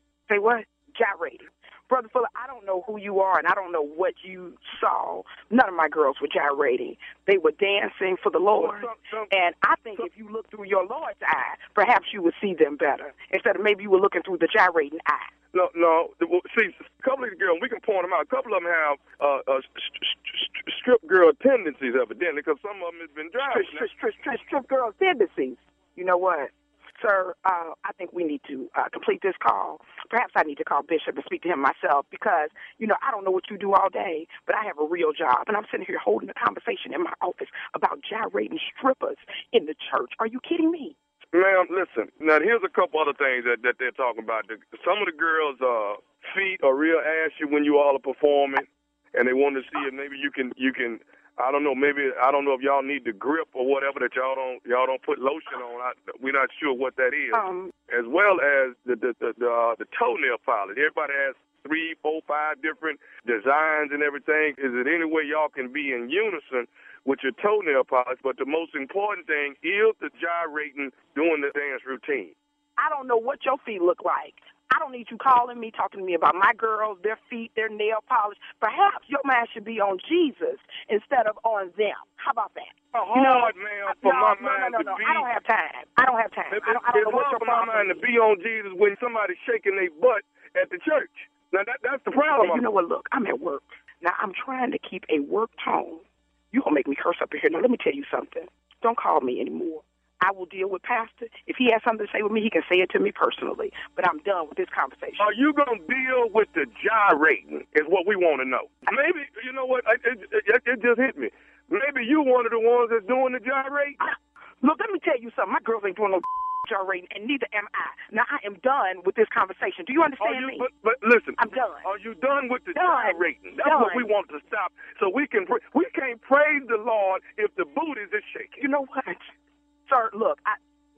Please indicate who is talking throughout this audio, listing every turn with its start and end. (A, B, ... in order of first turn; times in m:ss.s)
0:00.3-0:15.3 A
0:08.6-0:09.3 B
0:15.5-0:23.9 B
0:23.4-0:40.9 A
0:41.3-1:12.3 B
0:57.3-0:57.7 A
1:12.8-1:28.0 A
1:23.0-1:25.3 B
1:26.5-1:32.7 B
1:32.2-1:45.3 A
1:45.2-1:54.0 B
1:54.0-2:00.7 A
2:00.2-2:08.6 B
2:01.4-2:01.8 A
2:02.7-2:04.1 A
2:08.6-2:09.3 A
2:09.9-2:10.6 A